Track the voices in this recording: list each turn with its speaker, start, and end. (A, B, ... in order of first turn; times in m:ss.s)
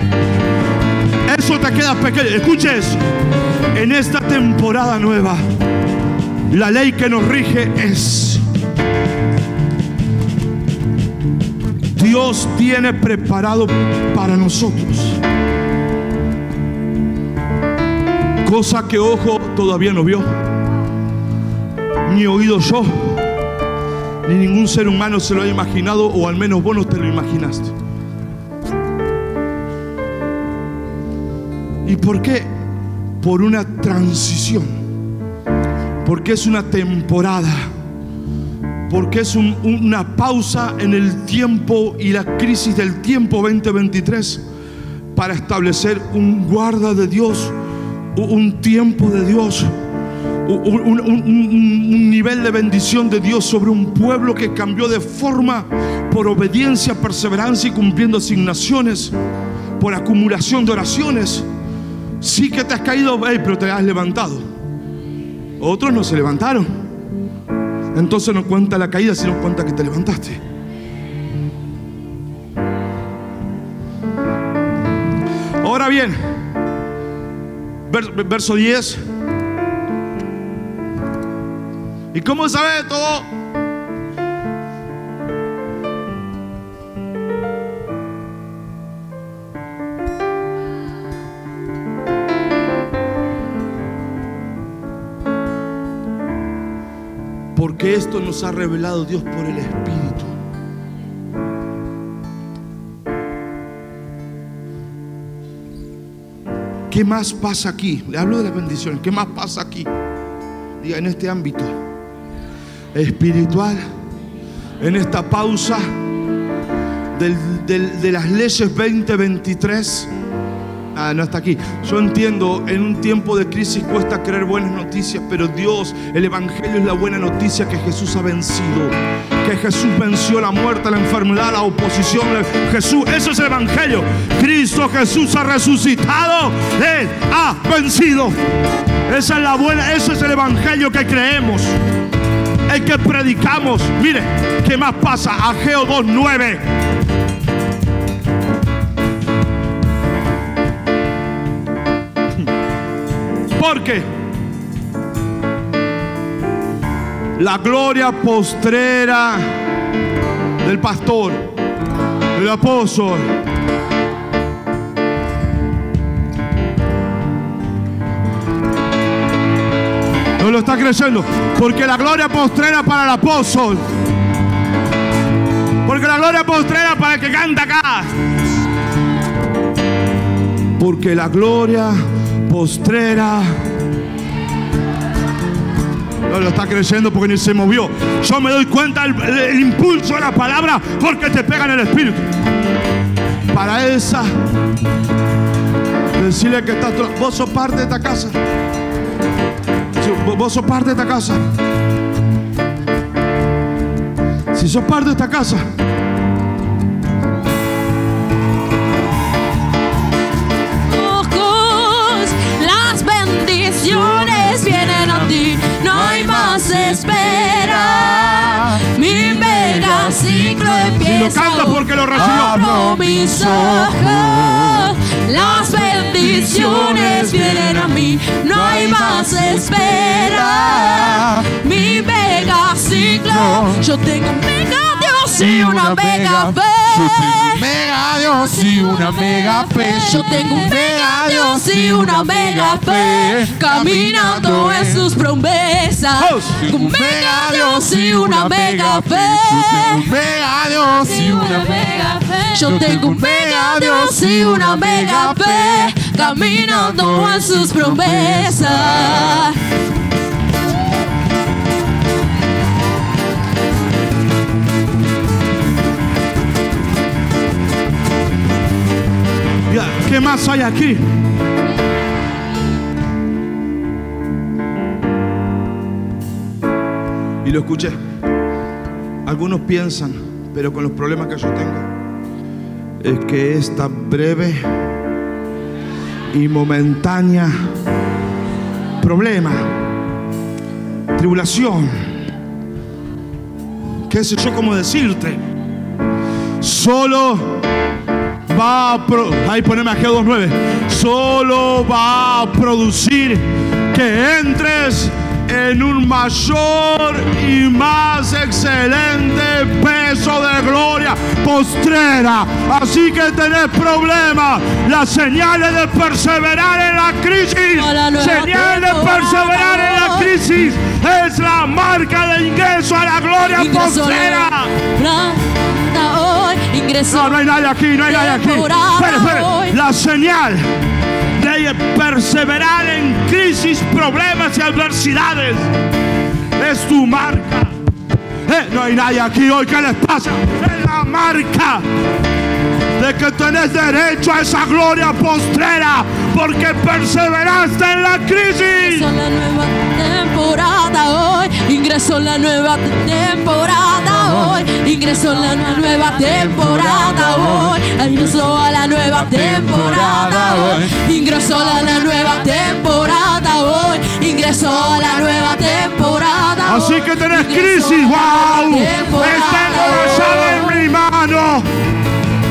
0:01.2-0:03.0 A
0:03.7-0:05.4 A
0:06.5-0:08.4 A
0:11.9-0:15.2 A
0:18.4-0:20.2 A
0:22.0-0:23.3 A
0:24.2-0:27.7 A
0:31.8-0:32.5 A
0:33.2-0:34.8 A
0:36.0-0:37.7 A
0:38.9-0:44.4 A
0:45.1-0:47.5 A
0:48.1-0:49.7 A
0:50.4-0:59.1 A
0:59.8-1:01.4 A
1:02.2-1:04.5 A
1:05.6-1:06.8 A
1:07.9-1:10.4 A
1:15.6-1:16.4 A
1:17.9-1:19.0 A
1:22.1-1:23.3 A
1:37.5-1:40.4 A
1:46.9-1:49.9 A
1:50.8-1:51.8 A
1:52.9-1:53.8 A
1:54.8-1:55.9 A
1:57.1-2:00.1 A
2:00.9-2:18.4 A
2:19.1-2:21.7 A
2:22.7-2:26.6 A
2:33.5-2:34.1 A
2:37.4-2:39.5 A
2:40.6-2:41.5 A
2:42.3-2:43.3 A
2:50.4-2:53.9 A
2:55.8-2:58.1 A
3:00.8-3:03.6 A
3:06.3-3:12.3 A
3:13.5-3:14.3 A
3:16.1-3:18.4 A
3:20.0-3:21.4 A
3:24.5-3:25.6 A
3:30.9-3:57.7 B
3:34.1-3:35.0 C
3:35.9-3:41.0 C
3:41.0-3:42.6 A
3:42.3-3:45.0 C
3:46.4-3:47.5 A
3:46.6-3:47.0 C
3:48.5-3:51.5 C
3:52.8-3:53.8 C
3:55.4-4:05.1 C
3:59.6-4:10.2 B
4:06.2-4:06.6 A
4:06.6-4:19.5 C
4:11.0-4:19.6 B
4:29.7-4:31.1 A
4:37.4-4:38.0 A
4:39.2-4:41.9 A
4:43.0-4:44.8 A
4:46.3-4:47.6 A
4:49.0-4:49.8 A
4:51.1-4:52.2 A
4:54.0-4:55.4 A
4:56.6-4:57.6 A
4:58.5-5:24.7 A
5:17.7-5:20.4 B
5:23.5-5:27.4 B
5:27.1-5:30.7 A
5:28.0-5:29.8 B
5:31.4-5:35.7 A
5:36.6-5:37.7 A
5:38.5-5:41.8 A
5:43.0-5:49.1 A
5:48.7-6:10.8 B
5:56.2-6:01.0 C
6:06.6-6:11.7 A